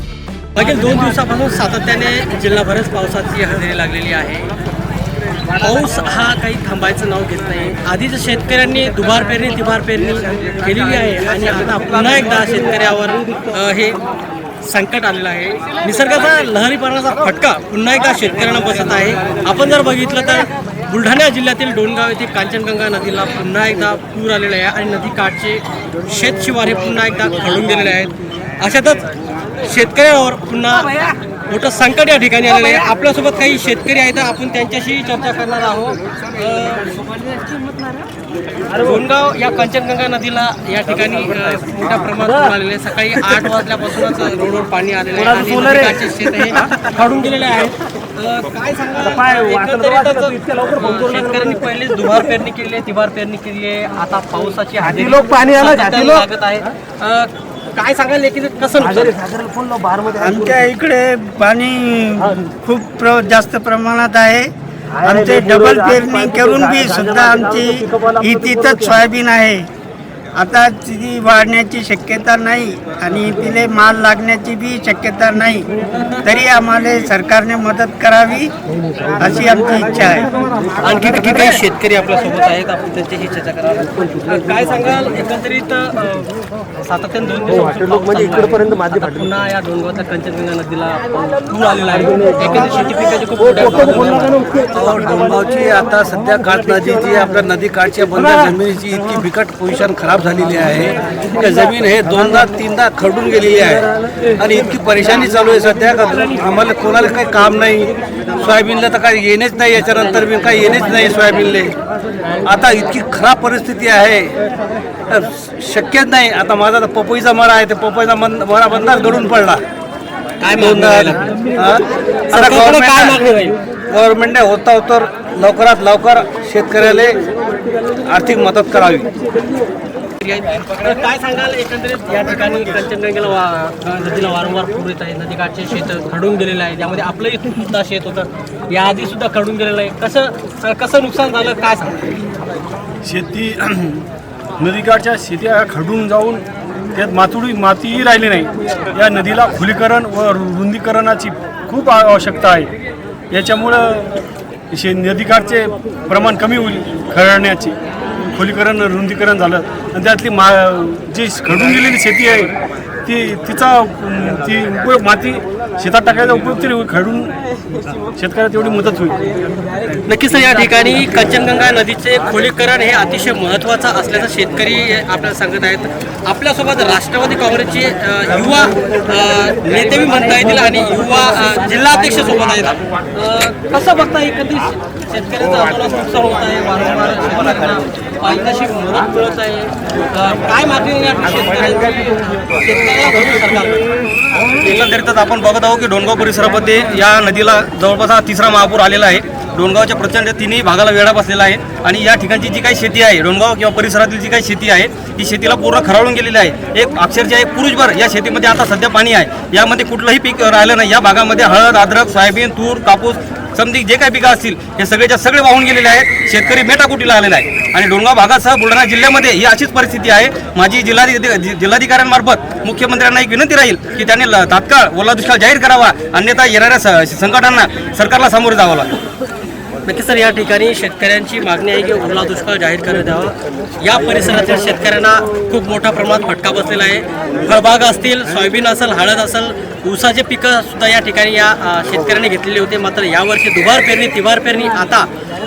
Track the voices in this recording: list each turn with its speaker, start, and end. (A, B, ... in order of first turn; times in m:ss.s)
0:00.5-0:04.5 A
0:05.6-0:14.0 A
0:14.6-0:29.0 A
0:29.6-0:37.1 A
0:38.7-0:59.4 A
1:00.1-1:09.7 B
1:10.3-1:15.7 B
1:16.2-1:18.5 B
1:19.2-1:20.3 B
1:20.8-1:34.4 A
1:34.7-1:43.9 C
1:44.4-1:51.7 C
1:52.4-1:54.4 C
1:55.1-1:59.6 C
2:00.4-2:01.3 A
2:00.6-2:03.2 C
2:02.3-2:03.6 A
2:03.9-2:07.2 C
2:08.0-2:09.1 C
2:10.2-2:22.0 A
2:23.0-2:24.1 D
2:24.6-2:32.7 D
2:33.3-2:34.2 D
2:34.7-2:47.4 D
2:48.2-2:49.2 D
2:50.1-3:13.8 A
3:14.6-3:48.9 E
3:49.8-4:05.1 A